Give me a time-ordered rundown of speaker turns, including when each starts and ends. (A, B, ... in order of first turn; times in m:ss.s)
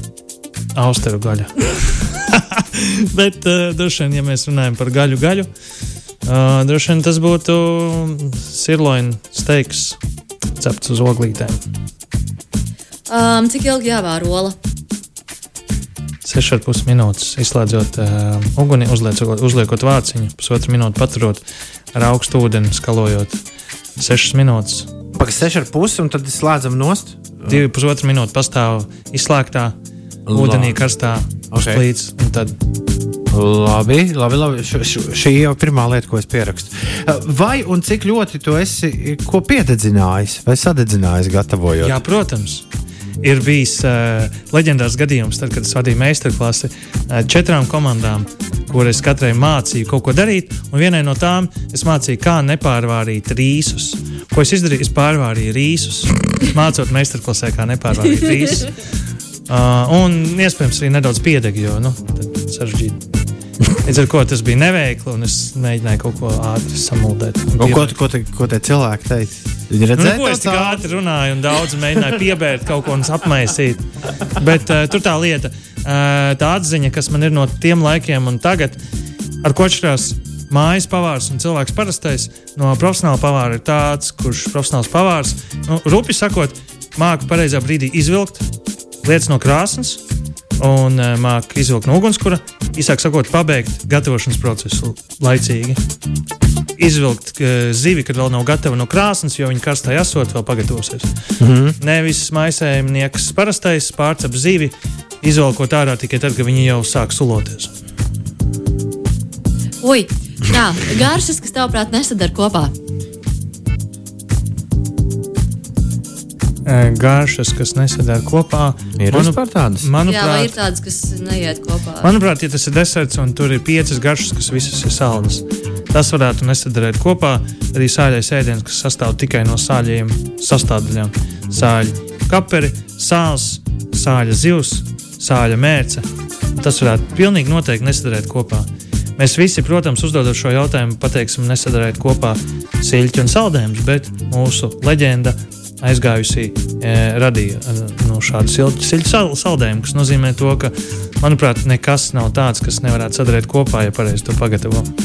0:00.7-0:05.5 A
0:06.2-0:10.0 A
0:10.6-0:11.6 A
0:13.1-0:14.6 B
0:16.2-0:23.4 A
0:24.0-0:24.9 A
0:25.1-0:27.6 C
0:27.4-0:29.8 A
0:30.2-0:30.8 C
0:30.3-0:32.6 A
0:31.5-0:31.8 C
0:33.3-0:42.0 C
0:41.8-0:42.6 A
0:43.2-0:58.7 A
0:59.5-1:03.0 A
1:03.6-1:08.0 A
1:07.6-1:10.8 C
1:09.9-1:18.8 A
1:19.4-1:28.4 A
1:29.0-1:30.0 A
1:30.6-1:35.8 A
1:36.8-1:41.1 A
1:41.4-1:41.8 C
1:41.8-1:47.7 A
1:49.8-1:52.7 B
1:56.6-2:00.5 A
1:59.0-1:59.9 C
2:00.0-2:02.1 B
2:02.0-2:34.9 A